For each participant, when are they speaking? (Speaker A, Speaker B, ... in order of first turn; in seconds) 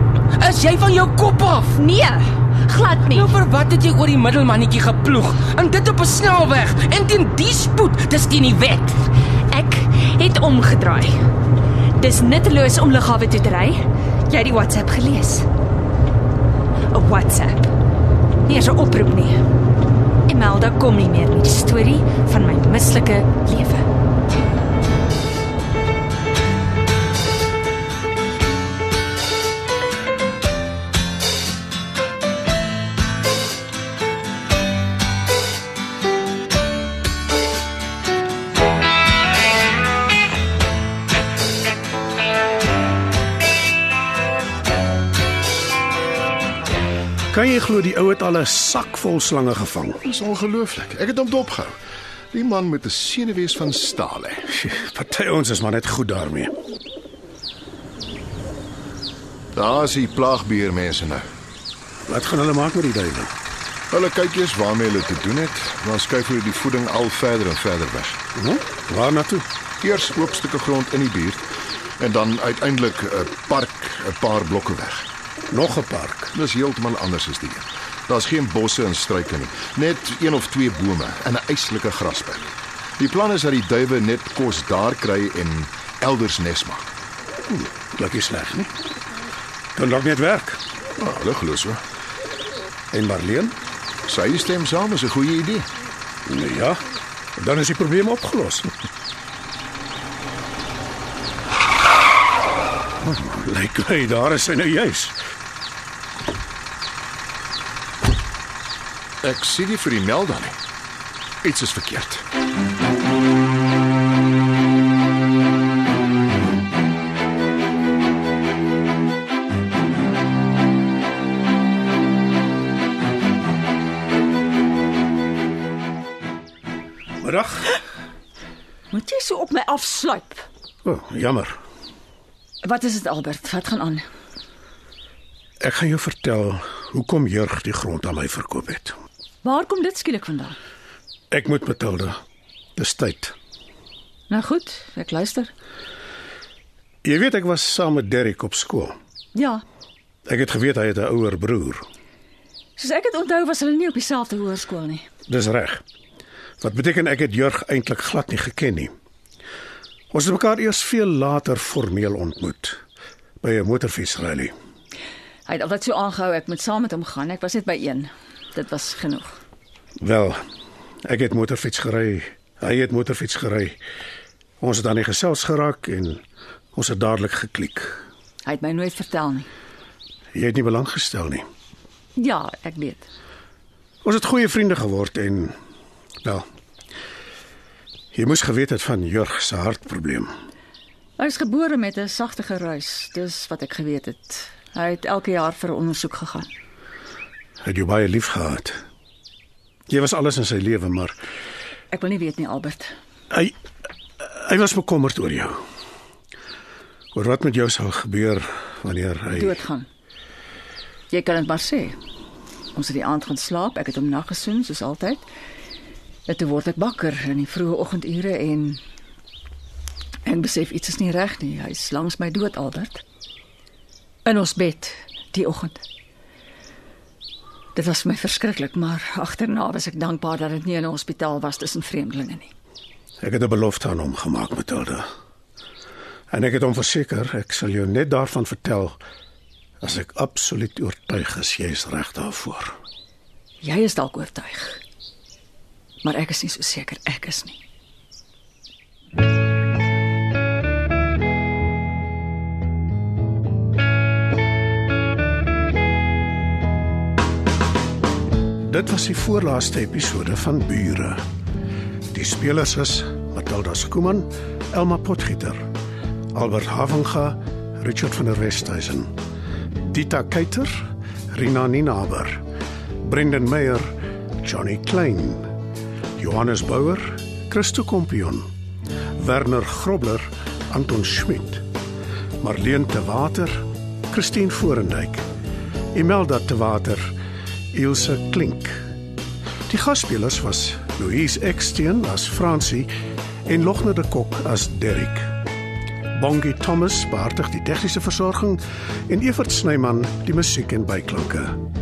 Speaker A: 0.3-1.7, 3.1-9.1
Speaker B: 1.8-3.2, 9.5-11.2, 12.0-13.8, 14.3-15.4, 16.9-17.6, 18.5-19.4, 20.3-23.8
Speaker C: 47.3-50.0, 54.5-56.5, 62.1-63.3, 68.3-69.5, 75.5-76.3, 87.5-88.7, 89.8-90.6, 92.9-93.6, 96.3-96.8, 97.4-98.7, 103.0-105.2, 127.2-127.7, 130.8-131.6, 135.6-138.9, 141.3-142.2, 142.8-143.3, 147.0-148.9, 150.3-151.8, 155.3-155.8, 156.6-158.9, 160.1-162.8, 163.4-164.5, 170.0-170.4, 171.1-173.8, 174.6-176.2, 176.8-178.0, 180.3-181.4, 184.0-185.6, 188.1-190.3, 197.6-198.8, 199.9-201.2, 204.2-205.6, 207.1-209.6, 233.2-235.1, 236.3-239.0, 239.8-242.8, 258.7-261.2, 262.1-265.7, 266.3-269.1, 269.9-270.8, 271.3-272.4, 273.0-273.9, 274.4-275.5, 276.2-278.5, 279.2-281.6, 282.4-285.2, 285.9-287.1, 287.7-288.8, 289.7-292.9, 293.5-295.3, 296.2-301.6
Speaker D: 50.1-51.8, 52.3-54.4, 59.6-61.2, 63.9-68.2, 69.8-71.4, 72.0-75.0, 76.4-82.5, 83.0-86.9, 91.0-91.8, 94.1-95.7, 109.2-110.6, 111.5-112.2
Speaker E: 128.9-130.5, 132.6-134.0, 139.4-140.6, 144.3-145.5, 149.3-149.6, 152.8-155.1, 165.5-169.4, 178.4-179.5, 182.2-183.1, 191.2-196.5, 201.9-202.9, 209.3-209.9, 211.1-212.0, 212.7-215.3, 216.3-218.8, 220.2-223.0, 224.2-225.8, 227.8-232.5, 243.6-244.8, 246.0-247.6